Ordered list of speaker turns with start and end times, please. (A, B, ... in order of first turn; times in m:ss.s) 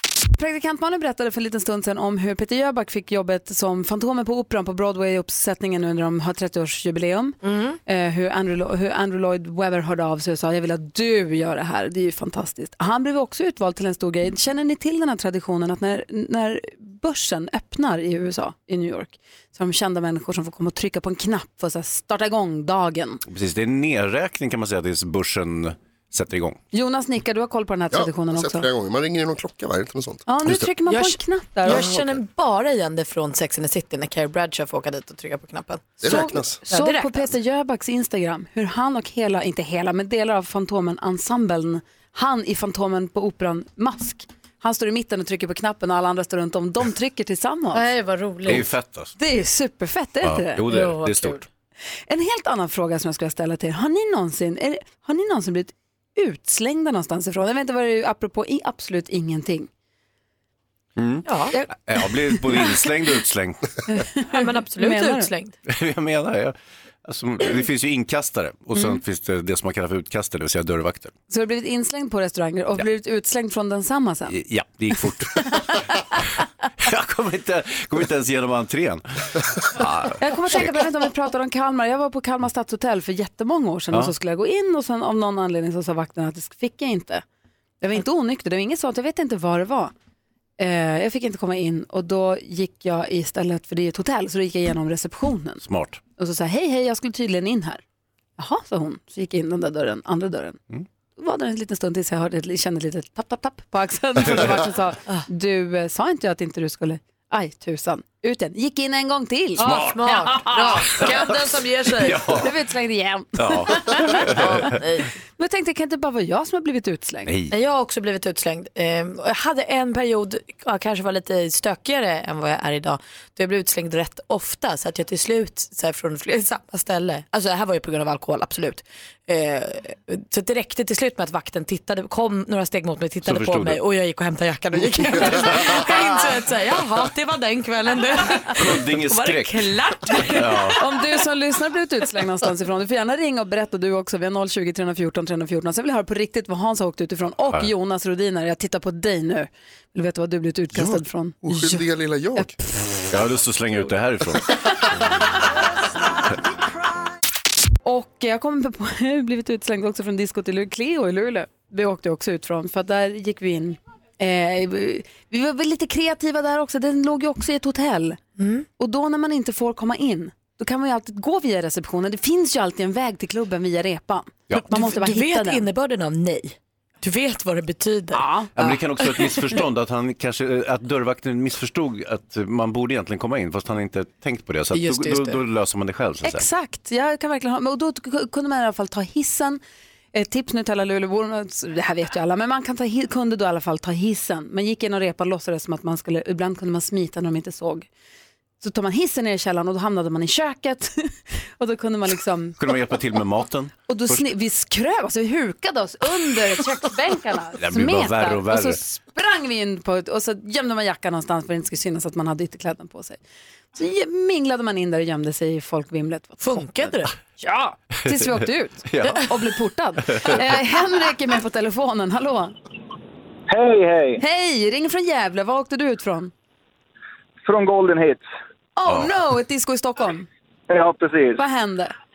0:00.4-0:23.2 A
0:07.5-0:07.8 B
0:23.3-0:26.6 C
0:26.7-0:28.7 A
0:27.9-0:30.6 D
0:30.3-0:31.9 A
0:30.9-0:37.3 B
0:36.0-0:36.6 D
0:36.0-0:47.8 A
0:47.7-0:48.7 B
0:48.4-0:49.1 C
0:49.2-0:50.6 A
0:50.2-0:51.4 C
0:50.7-0:51.4 B
0:52.1-0:59.7 A
1:01.0-1:03.8 C
1:01.3-1:01.5 B
1:03.9-1:05.3 A
1:04.3-1:05.6 B
1:05.7-1:11.1 C
1:11.3-1:14.4 A
1:14.3-1:16.2 C
1:16.8-1:20.7 C
1:20.2-1:27.2 A
1:27.8-1:29.9 A
1:30.6-1:35.6 A
1:35.6-1:36.0 C
1:36.2-1:37.8 A
1:38.4-1:40.6 A
1:41.2-1:49.7 A
1:49.6-1:52.4 B
1:49.6-1:51.3 C
1:51.9-1:52.5 C
1:52.4-1:54.3 A
1:53.4-1:54.8 C
1:54.1-1:55.1 B
1:55.4-1:57.3 A
1:57.3-1:57.5 C
1:57.5-2:20.8 B
2:13.2-2:13.8 C
2:15.2-2:15.8 C
2:18.6-2:20.8 C
2:20.8-2:31.8 A
2:30.7-2:32.6 D
2:33.1-2:34.6 C
2:37.8-2:48.2 A
2:48.4-2:48.7 B
2:48.8-2:55.6 A
2:54.5-2:59.4 B
2:58.1-2:58.5 A
2:58.6-3:06.5 C
3:04.7-3:05.4 B
3:06.2-3:09.6 A
3:10.1-3:17.9 A
3:18.6-3:22.6 A
3:22.6-3:24.2 C
3:23.9-3:33.2 A
3:27.6-3:28.8 C
3:33.7-3:42.6 A
3:36.4-3:37.1 B
3:38.9-3:39.3 C
3:43.5-3:44.2 E
3:44.2-3:46.3 A
3:47.4-3:48.2 E
3:48.8-3:50.3 A
3:50.7-3:51.4 E
3:51.4-3:51.9 A